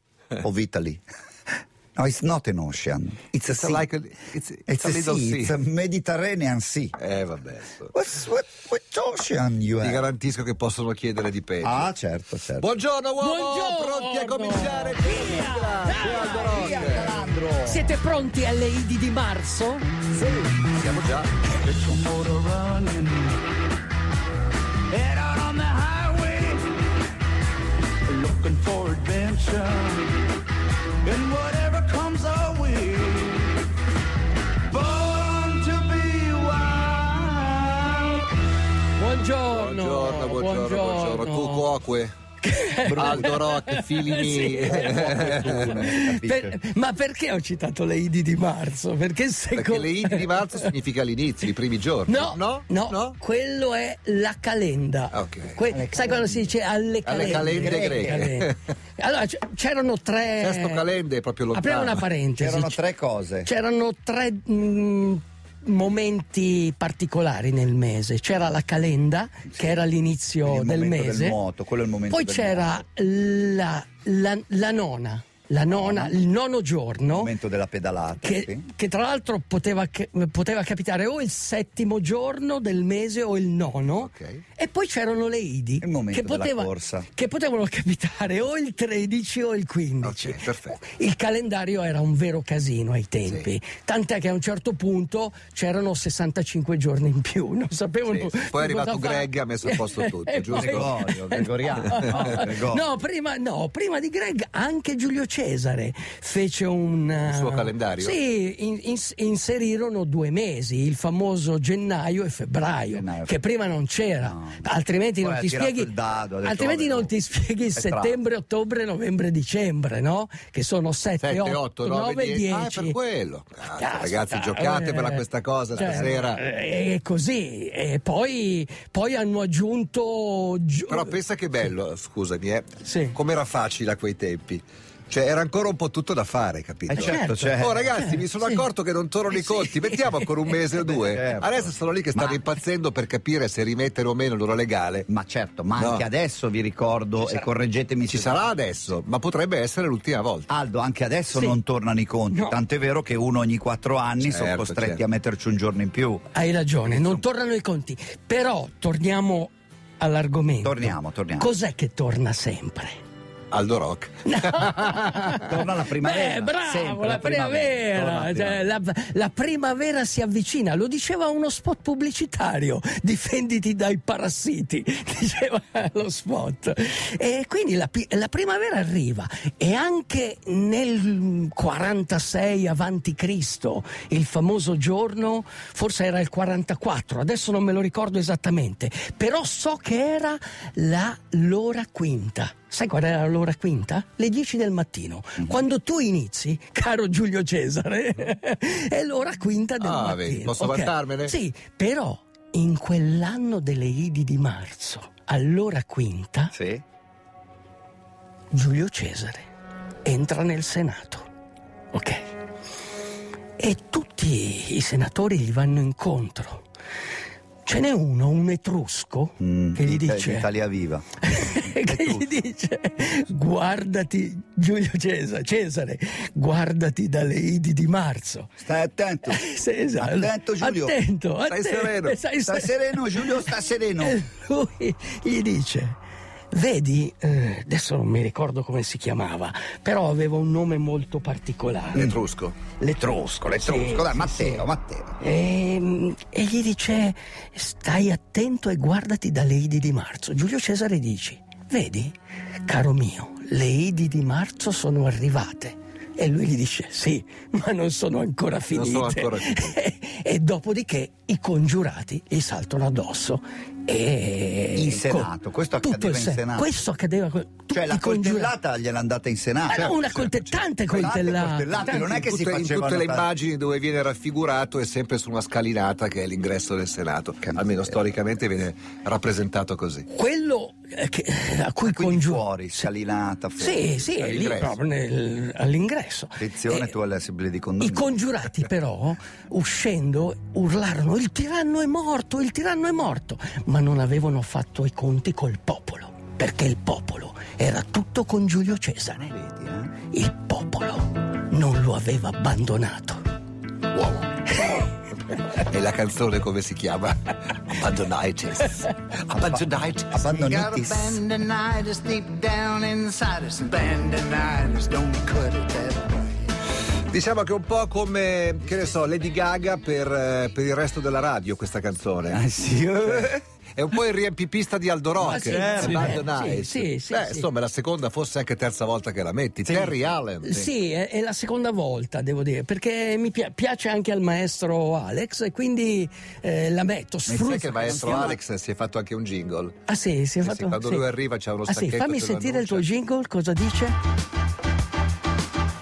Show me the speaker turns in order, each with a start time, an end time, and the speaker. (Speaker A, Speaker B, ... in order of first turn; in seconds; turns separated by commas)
Speaker A: 0.4-1.0, Speaker A: 2.0-3.9, Speaker B: 3.5-5.6, Speaker A: 4.7-7.0, Speaker B: 7.0-7.9, Speaker A: 7.9-10.1, Speaker B: 9.8-11.9, Speaker A: 11.6-12.7, Speaker B: 12.6-17.2, Speaker C: 13.2-19.9, Speaker A: 15.8-17.9, Speaker A: 20.2-20.4, Speaker B: 20.8-21.3, Speaker D: 21.6-23.4, Speaker D: 24.9-26.7, Speaker D: 28.1-30.2, Speaker D: 31.0-33.6, Speaker D: 34.7-38.2, Speaker C: 38.9-41.7, Speaker B: 39.5-42.1, Speaker C: 42.4-50.7, Speaker A: 42.9-43.3, Speaker B: 42.9-45.8, Speaker A: 44.7-46.6, Speaker B: 49.5-53.2, Speaker C: 52.1-60.9, Speaker B: 55.1-55.6, Speaker A: 55.7-56.5, Speaker B: 57.1-58.6, Speaker A: 57.2-58.2, Speaker B: 60.4-62.0, Speaker C: 61.5-62.8, Speaker A: 62.4-63.5, Speaker C: 63.4-71.4, Speaker A: 70.4-72.8, Speaker C: 72.1-77.3, Speaker A: 75.7-76.2, Speaker A: 77.1-78.7, Speaker C: 78.2-123.0, Speaker B: 84.0-84.4, Speaker A: 85.8-87.1, Speaker B: 90.0-90.8, Speaker B: 98.1-100.9, Speaker A: 100.5-102.9, Speaker B: 107.2-108.2, Speaker A: 112.9-113.3, Speaker A: 114.2-114.6, Speaker A: 115.2-117.1, Speaker A: 117.7-118.2, Speaker B: 121.2-126.4, Speaker C: 123.7-125.2, Speaker C: 125.8-131.2, Speaker B: 130.9-145.1, Speaker C: 132.8-133.2, Speaker A: 136.9-137.9, Speaker C: 136.9-138.7, Speaker C: 139.3-140.6, Speaker A: 140.8-142.4, Speaker A: 145.1-148.6, Speaker B: 145.8-146.1, Speaker B: 148.1-150.5, Speaker A: 150.5-156.2, Speaker C: 152.3-152.6, Speaker B: 154.3-155.0, Speaker C: 156.3-163.0, Speaker B: 156.9-157.2, Speaker A: 160.6-161.5, Speaker B: 163.5-165.0, Speaker C: 164.2-206.6, Speaker A: 165.4-168.7, Speaker B: 199.8-201.3, Speaker A: 206.5-206.8, Speaker C: 208.5-209.5, Speaker C: 210.1-211.3, Speaker C: 211.9-212.2, Speaker C: 213.6-216.7, Speaker C: 217.6-220.5, Speaker A: 219.4-222.3, Speaker C: 221.2-228.5, Speaker A: 228.6-229.4, Speaker C: 229.2-233.5, Speaker A: 230.0-231.0, Speaker B: 231.5-232.2, Speaker A: 232.4-234.2, Speaker C: 234.0-236.0, Speaker C: 236.5-242.1, Speaker B: 241.9-242.6, Speaker A: 241.9-242.2, Speaker C: 242.8-244.7, Speaker A: 243.0-245.2, Speaker C: 245.2-268.6, Speaker B: 258.7-259.8, Speaker A: 264.7-266.7, Speaker A: 267.7-270.0, Speaker C: 269.7-272.3, Speaker B: 269.7-270.6, Speaker A: 270.9-273.3, Speaker B: 271.9-280.1, Speaker A: 277.4-278.0, Speaker C: 280.1-282.9, Speaker A: 281.9-284.0, Speaker C: 283.6-286.9, Speaker B: 284.2-284.8, Speaker A: 286.4-288.1, Speaker C: 287.8-299.3, Speaker A: 299.2-299.9, Speaker C: 300.1-303.2, Speaker C: 304.5-304.9, Speaker B: 305.5-310.7, Speaker A: 309.3-311.2, Speaker D: 310.3-316.3, Speaker B: 317.1-322.4, Speaker A: 322.3-323.4, Speaker B: 323.2-330.6, Speaker C: 325.2-327.5, Speaker A: 325.3-326.2, Speaker A: 329.6-330.7, Speaker C: 330.4-338.4, Speaker A: 337.3-338.4, Speaker B: 337.3-339.8, Speaker C: 339.9-341.1, Speaker B: 340.4-342.9, Speaker C: 341.7-344.0